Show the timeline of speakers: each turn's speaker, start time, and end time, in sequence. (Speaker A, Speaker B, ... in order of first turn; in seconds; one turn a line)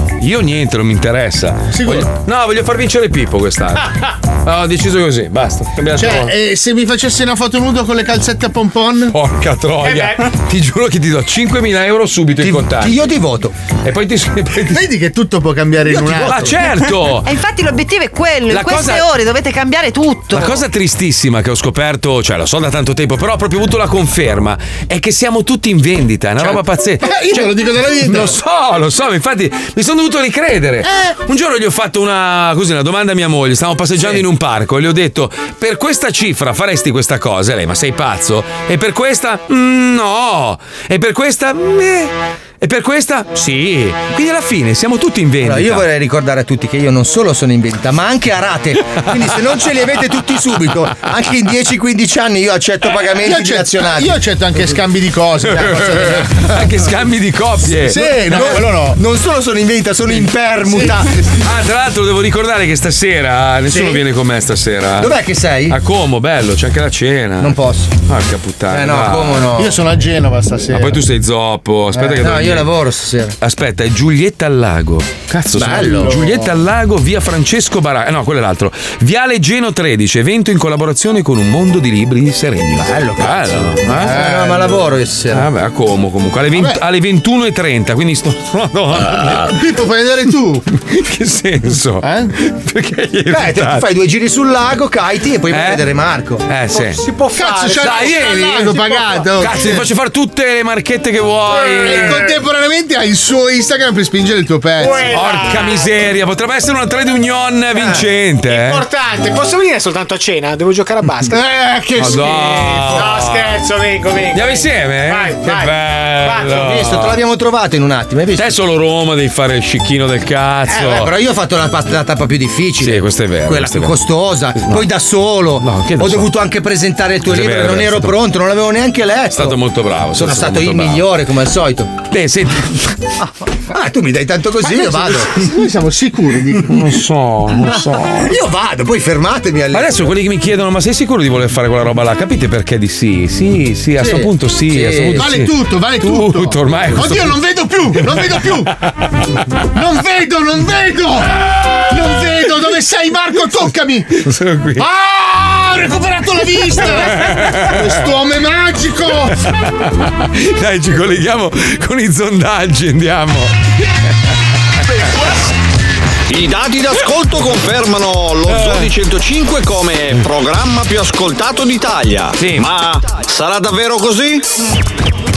Speaker A: 0.2-6.3
Speaker B: 1.7-2.1
Speaker B: 6.0-9.1
Speaker A: 9.1-13.2
Speaker C: 9.8-10.3
Speaker D: 12.4-13.5
Speaker A: 13.8-14.8
Speaker B: 14.7-16.5
Speaker D: 15.9-16.5
Speaker A: 16.1-17.3
Speaker E: 17.2-20.6
Speaker A: 18.5-19.1
Speaker A: 20.3-45.9
Speaker B: 27.0-28.3
Speaker D: 45.4-54.2
Speaker B: 53.2-56.3
Speaker A: 55.5-58.5
Speaker B: 57.8-59.0
Speaker D: 58.2-61.1
Speaker A: 61.4-69.5
Speaker D: 63.7-64.0
Speaker D: 65.0-65.8
Speaker D: 67.4-67.9
Speaker D: 68.7-69.8
Speaker B: 69.6-71.0
Speaker A: 70.7-72.7
Speaker D: 71.9-73.3
Speaker A: 73.4-84.2
Speaker D: 75.5-76.3
Speaker D: 82.8-85.5
Speaker B: 84.1-84.6
Speaker A: 85.3-89.6
Speaker B: 89.4-90.6
Speaker A: 90.9-93.8
Speaker B: 92.0-92.3
Speaker D: 93.3-96.5
Speaker A: 95.5-95.8
Speaker A: 96.5-97.0
Speaker C: 96.7-99.3
Speaker B: 97.3-99.8
Speaker A: 97.7-98.7
Speaker A: 99.3-102.3
Speaker B: 101.7-105.1
Speaker C: 104.8-105.9
Speaker A: 105.1-108.8
Speaker C: 107.8-111.4
Speaker B: 111.3-113.1
Speaker A: 112.0-113.6
Speaker C: 112.9-116.6
Speaker A: 114.3-117.2
Speaker D: 116.4-118.5
Speaker A: 118.3-121.1
Speaker D: 120.7-129.6
Speaker A: 122.8-124.0
Speaker A: 124.5-124.9
Speaker A: 125.6-126.3
Speaker A: 127.3-128.2
Speaker A: 129.3-131.1
Speaker D: 130.1-131.9
Speaker A: 132.1-132.9
Speaker D: 133.7-135.3
Speaker B: 134.7-136.8
Speaker A: 136.7-138.3
Speaker D: 137.6-140.1
Speaker A: 139.7-147.4
Speaker D: 144.0-145.3
Speaker B: 145.2-148.7
Speaker A: 147.9-148.5
Speaker B: 149.7-154.1
Speaker A: 154.2-154.9
Speaker B: 154.8-159.4
Speaker A: 156.7-158.0
Speaker A: 159.7-163.5
Speaker F: 166.3-174.4
Speaker A: 168.5-168.9
Speaker A: 172.4-172.7